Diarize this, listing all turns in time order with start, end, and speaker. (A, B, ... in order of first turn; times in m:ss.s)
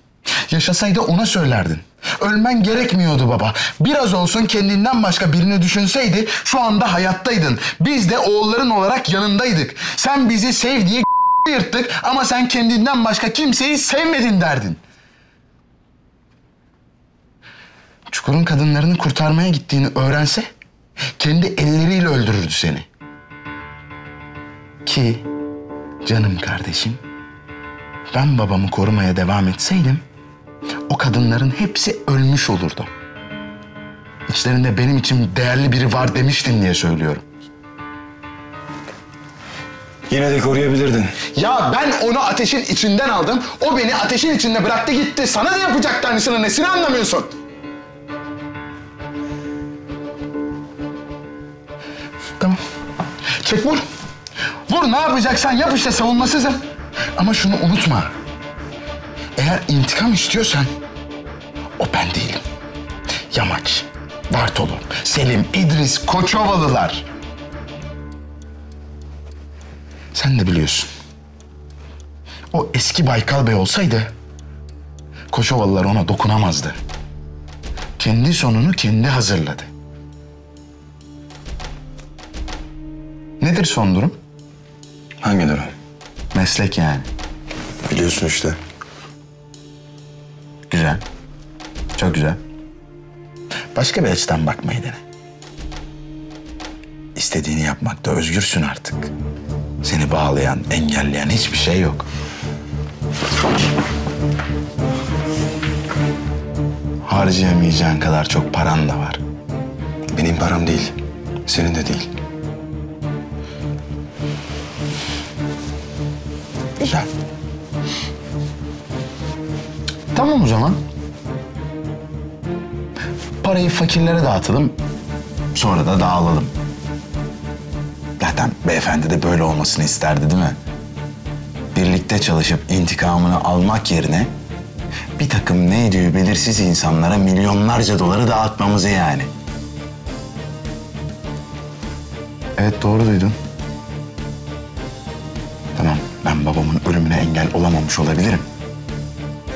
0:00.5-0:14.8 A
0:18.1-0:20.5 A
0:21.2-0:22.9 A
0:24.8-0:25.2 A
0:26.0-0:27.0 A
0:28.1-0:30.0 A
0:30.9-0:32.9 A
0:34.3-0:37.2 A
0:40.1-0:41.2 B
0:41.3-0:47.4 A
0:53.4-0:53.8 A
0:54.7-0:56.6 A
0:57.2-0:58.1 A
0:59.4-1:00.7 A
1:01.8-1:02.4 A
1:03.3-1:07.0 A
1:10.1-1:10.9 A
1:12.5-1:14.1 A
1:15.3-1:16.8 A
1:18.0-1:19.7 A
1:23.4-1:24.2 A
1:25.2-1:25.7 B
1:26.3-1:27.1 A
1:27.9-1:28.6 B
1:30.7-1:31.0 A
1:31.9-1:32.4 A
1:33.7-1:35.0 A
1:37.1-1:39.1 A
1:39.8-1:42.1 A
1:47.0-1:49.2 A
1:50.1-1:50.9 A
1:51.5-1:52.0 A
1:51.7-1:52.0 B
1:56.8-1:57.1 A
2:00.1-2:00.8 A
2:03.4-2:04.8 A
2:05.5-2:06.5 A
2:08.2-2:10.6 A
2:11.7-2:14.3 A
2:15.2-2:19.3 A
2:22.6-2:23.4 A
2:25.8-2:28.4 A